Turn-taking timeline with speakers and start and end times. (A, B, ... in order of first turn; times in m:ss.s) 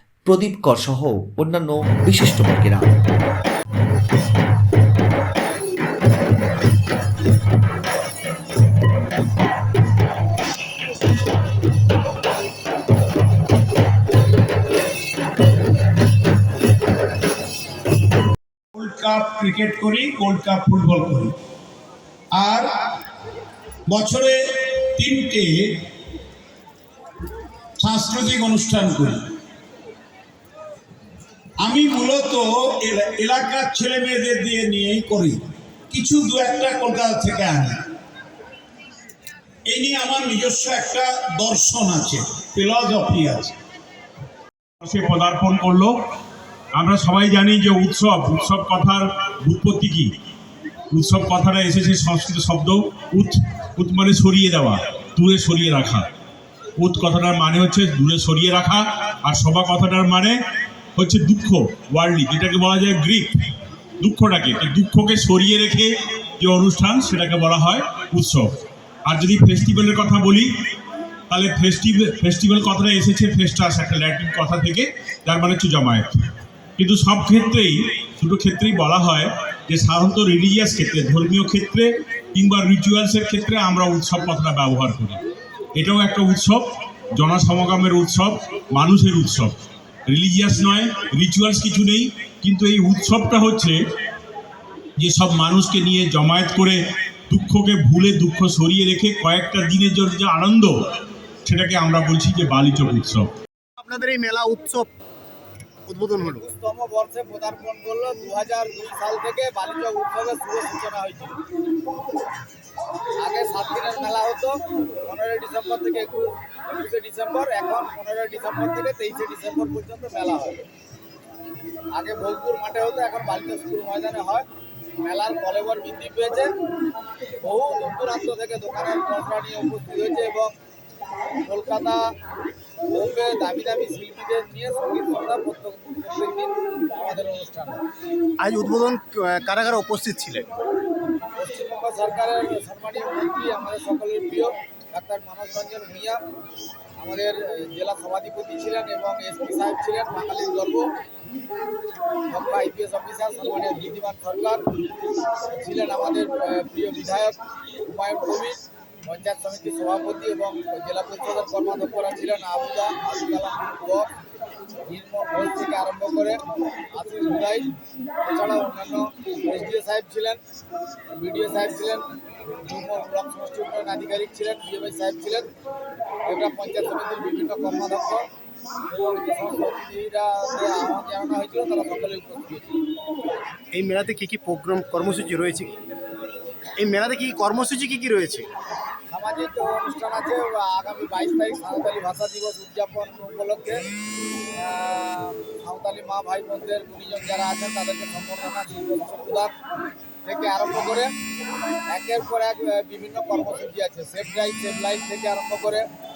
0:00.3-0:02.9 A
0:18.7-0:21.3 B
0:22.3-0:22.7 B
0:23.9-0:25.8 B
0:27.8-0:29.2 B
0:31.6-0:37.8 B
0:39.7-0:43.5 B
0:44.8-0:45.9 C
0:46.8-0:50.1 C
0:50.9-0:56.1 C
0:56.8-1:00.4 C
1:01.0-1:03.5 C
1:04.0-1:08.5 C
1:09.0-1:10.5 C
1:11.3-1:16.2 C
1:16.8-1:25.2 C
1:25.8-1:26.6 C
1:27.2-1:29.5 C
1:30.1-1:33.8 C
1:35.0-1:40.8 C
1:41.4-1:43.3 C
1:43.8-1:44.9 D
1:45.9-1:46.4 D
1:46.2-1:51.4 E
1:53.2-2:00.7 E
2:01.9-2:04.5 E
2:05.0-2:06.5 E
2:07.4-2:10.5 E
2:11.4-2:12.1 E
2:12.9-2:17.8 E
2:18.4-2:20.5 D
2:21.4-2:26.2 E
2:27.0-2:30.9 E
2:32.3-2:34.6 E
2:35.6-2:44.1 E
2:44.9-2:46.4 E
2:46.9-2:47.7 E
2:48.2-2:50.4 E
2:51.1-2:52.0 E
2:52.6-2:55.5 E
2:56.3-2:58.2 E
2:58.9-3:02.8 E
3:03.7-3:05.8 D
3:06.8-3:08.5 D
3:09.1-3:13.8 E
3:14.6-3:19.5 E
3:20.2-3:21.1 E
3:21.9-3:25.8 E